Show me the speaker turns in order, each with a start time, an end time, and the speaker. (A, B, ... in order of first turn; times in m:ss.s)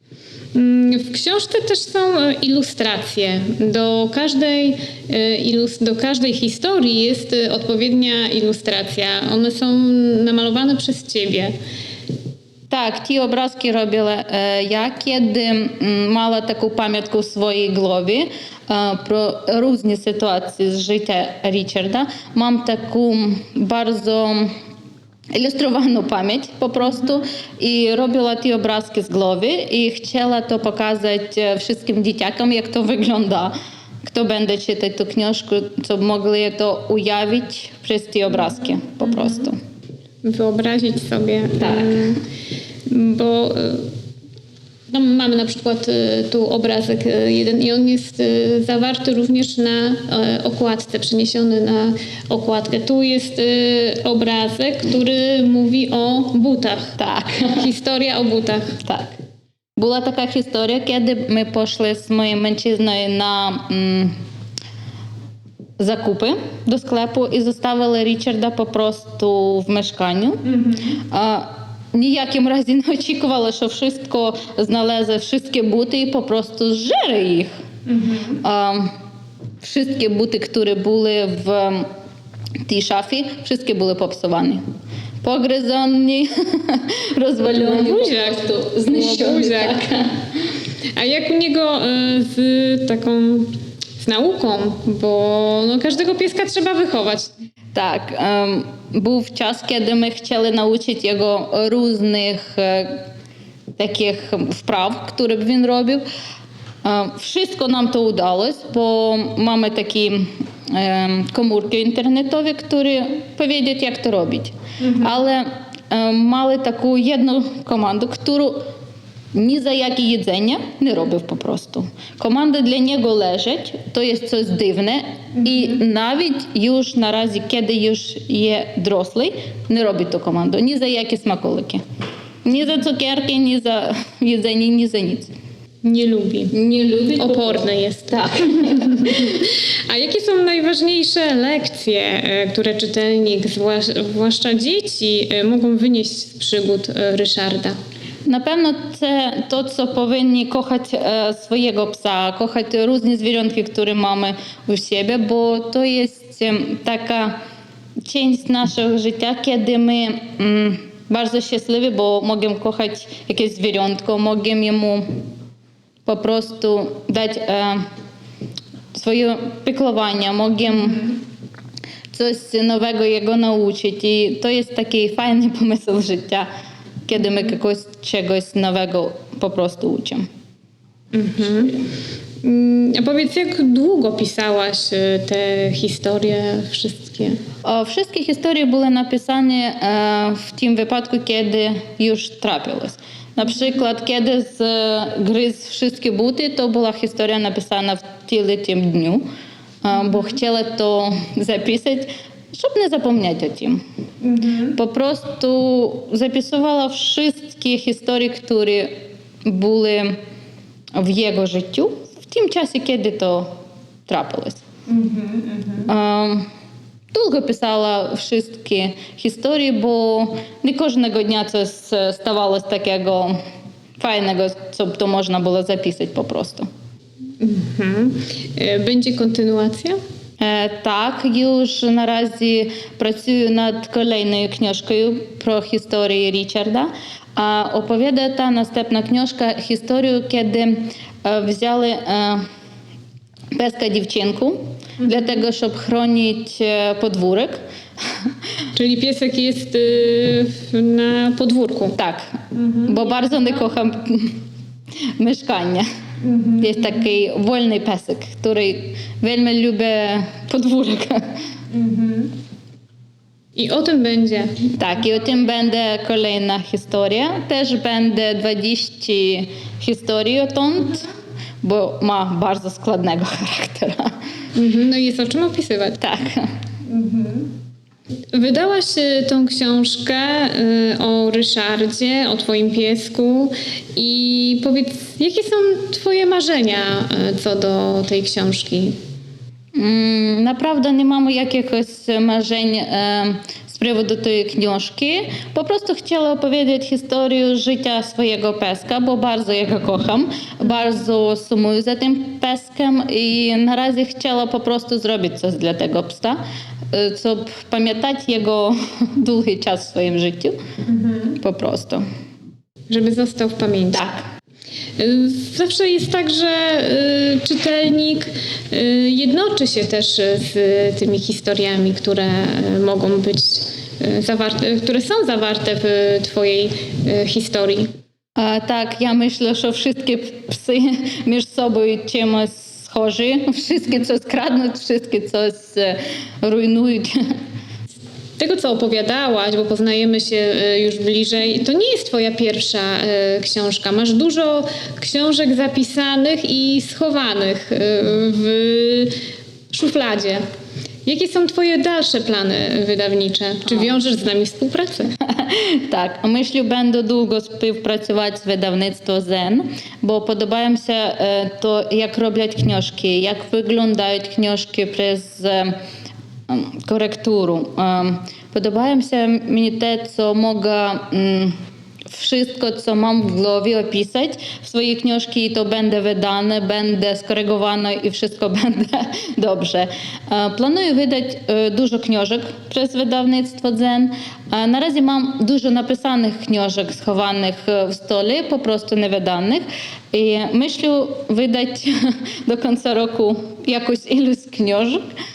0:00.5-0:11.5 A
0:12.7-0:24.5 B
0:25.3-0:39.6 B
0:39.0-0:39.3 A
0:40.2-0:42.2 A
0:42.8-0:43.9 A
0:44.9-0:57.0 A
0:57.0-0:57.6 B
0:57.5-0:58.8 A
0:58.8-0:59.1 B
0:59.8-1:04.1 B
1:05.8-1:17.5 B
1:10.4-1:11.0 A
1:17.9-1:18.4 A
1:18.4-1:18.9 B
1:19.6-1:21.8 B
1:22.6-1:24.6 B
1:25.2-1:30.1 B
1:27.5-1:29.8 A
1:31.0-1:37.3 A
1:37.7-1:43.0 B
1:43.8-1:46.0 B
1:46.8-1:58.6 B
1:54.8-1:55.1 A
1:59.3-2:11.8 B
2:12.4-2:15.3 B
2:15.8-2:16.5 A
2:16.5-2:19.1 B
2:17.2-2:27.7 A
2:28.2-2:37.4 B
2:38.0-2:45.0 B
2:46.0-2:47.8 B
2:48.9-2:51.2 B
2:52.1-2:56.5 B
2:57.1-3:00.2 B
3:01.1-3:01.8 A
3:02.4-3:07.4 A
3:07.6-3:19.2 B
3:19.8-3:23.8 B
3:24.2-3:24.8 A
3:24.7-3:28.9 B
3:29.4-3:30.2 B
3:31.0-3:33.5 B
3:34.1-3:34.6 B
3:34.9-3:35.9 A
3:35.9-3:36.4 B
3:37.1-3:43.3 B
3:44.0-3:46.7 B
3:47.4-3:50.0 A
3:50.4-4:02.4 B
4:03.5-4:07.6 B
4:08.7-4:12.0 A
4:12.0-4:14.4 B
4:12.5-4:13.0 A
4:15.2-4:15.8 B
4:16.2-4:16.8 A
4:16.6-4:21.2 B
4:21.7-4:22.3 A
4:23.6-4:24.6 A
4:24.7-4:31.1 B
4:31.6-4:34.1 B
4:34.6-4:36.0 A
4:36.0-4:36.5 B
4:36.9-4:37.5 A
4:38.3-4:48.9 A
4:49.8-5:06.4 B
5:06.9-5:10.5 B
5:10.9-5:11.4 A
5:11.4-5:12.0 B
5:12.9-5:14.1 A
5:15.0-5:27.9 A
5:28.4-5:37.2 B
5:38.4-5:49.1 A
5:49.7-5:50.4 A
5:51.0-5:55.1 A
5:55.3-6:05.7 B
6:06.5-6:11.6 B
6:12.1-6:35.0 B